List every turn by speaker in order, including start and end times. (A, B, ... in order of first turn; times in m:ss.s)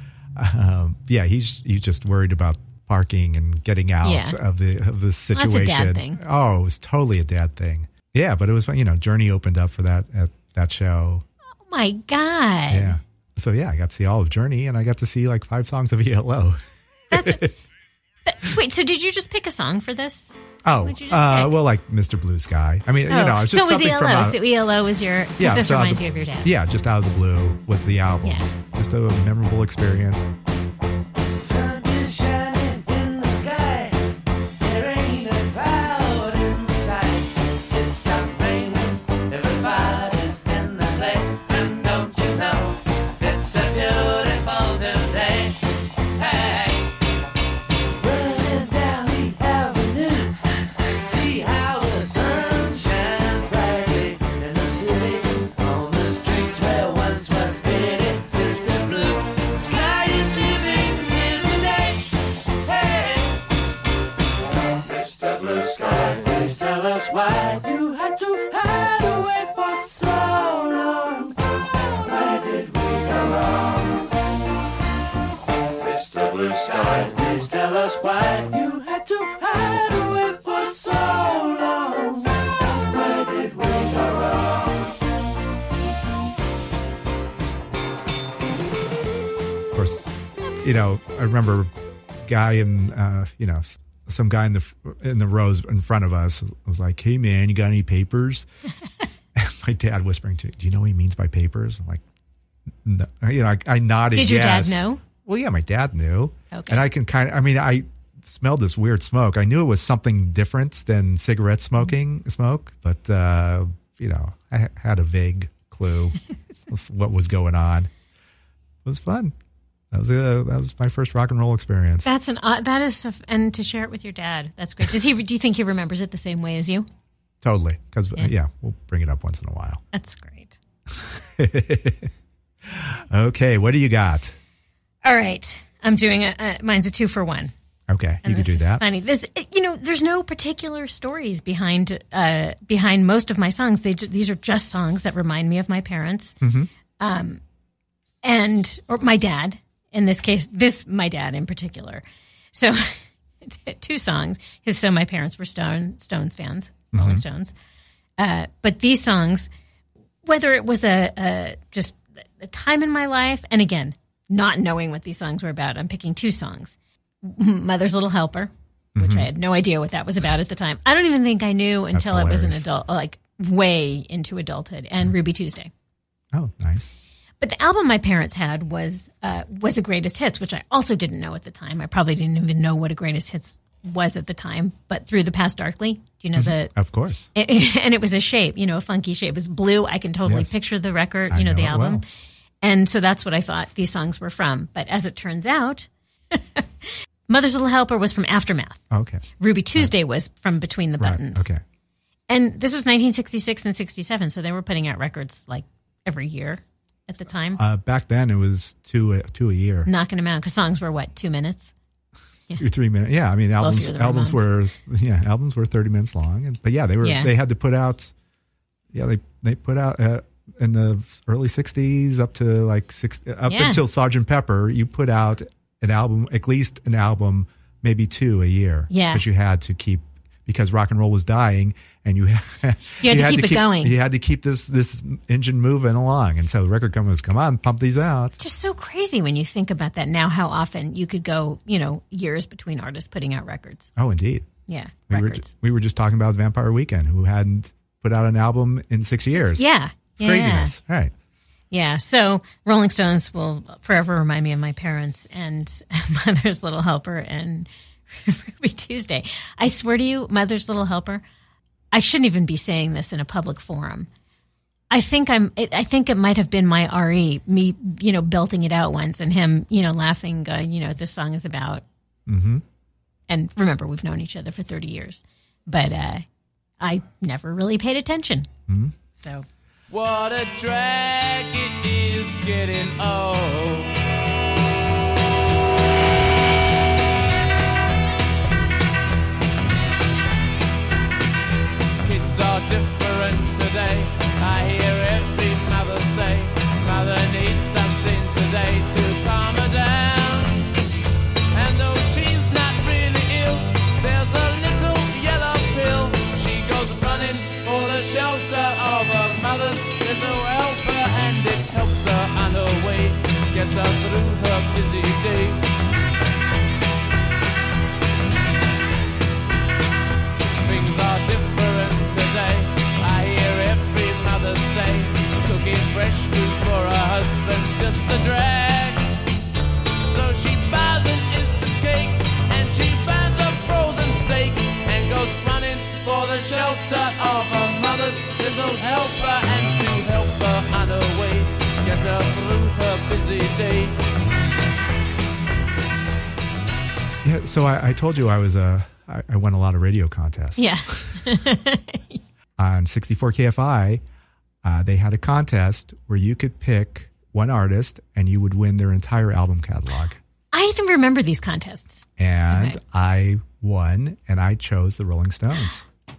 0:00.4-0:11.2 A
0:04.0-0:04.4 B
0:05.3-0:06.2 B
0:11.7-0:13.0 B
0:12.7-0:16.6 A
0:17.1-0:17.5 A
0:17.1-0:17.5 B
0:18.2-0:21.6 B
0:20.6-0:24.4 A
0:23.1-0:26.5 B
0:25.4-0:30.2 A
0:28.2-0:28.5 B
0:31.4-0:45.6 C
0:46.1-0:46.9 C
0:48.0-0:50.3 C
0:51.0-1:03.4 C
1:04.8-1:14.0 C
1:15.8-1:24.8 C
1:29.7-1:30.0 A
1:30.4-1:30.7 B
1:30.6-1:31.7 A
1:32.2-1:38.5 A
1:39.3-1:42.0 A
1:42.8-1:56.2 A
1:44.1-1:45.0 B
1:46.5-1:46.9 B
1:56.7-1:57.9 A
1:58.8-1:59.3 A
1:59.9-2:02.1 A
2:02.0-2:06.9 B
2:07.4-2:09.8 A
2:09.9-2:10.6 B
2:10.9-2:12.1 A
2:12.7-2:14.3 A
2:15.0-2:17.5 B
2:17.9-2:18.8 A
2:18.2-2:26.4 B
2:26.4-2:26.7 A
2:27.0-2:27.4 B
2:28.2-2:32.0 B
2:32.5-2:37.5 B
2:36.9-2:37.2 A
2:38.2-2:39.5 B
2:40.2-2:55.7 B
2:49.0-2:49.3 A
2:51.9-2:52.6 A
2:56.3-2:56.9 A
2:57.4-3:06.7 B
3:06.4-3:07.3 A
3:07.3-3:12.0 B
3:10.2-3:10.5 A
3:11.3-3:12.0 A
3:12.6-3:18.8 B
3:18.9-3:19.2 A
3:19.4-3:21.5 B
3:21.0-3:21.6 A
3:22.3-3:27.6 B
3:27.6-3:29.9 A
3:29.8-3:31.7 B
3:32.6-3:38.1 A
3:33.6-3:34.4 B
3:37.0-3:37.3 B
3:38.9-3:58.4 A
3:43.5-3:43.8 B
3:48.9-3:49.2 B
3:53.0-3:53.9 B
3:58.4-4:03.9 B
4:04.0-4:04.5 A
4:04.7-4:05.5 B
4:05.1-4:09.6 A
4:09.3-4:10.8 B
4:10.2-4:11.1 A
4:11.7-4:21.2 B
4:21.9-4:24.1 B
4:24.9-4:31.8 B
4:32.3-4:32.6 A
4:33.3-4:36.2 B
4:36.8-4:38.5 B
4:38.7-4:38.9 A
4:39.2-4:39.4 B
4:39.9-4:43.9 D
4:52.0-5:00.6 D
5:01.5-5:15.6 D
5:20.6-5:29.0 D
5:30.0-5:44.0 D
5:47.2-5:51.0 A
5:50.6-5:52.2 B
5:52.6-5:54.0 A
5:54.6-6:00.2 A
6:00.5-6:02.8 B
6:02.2-6:05.8 A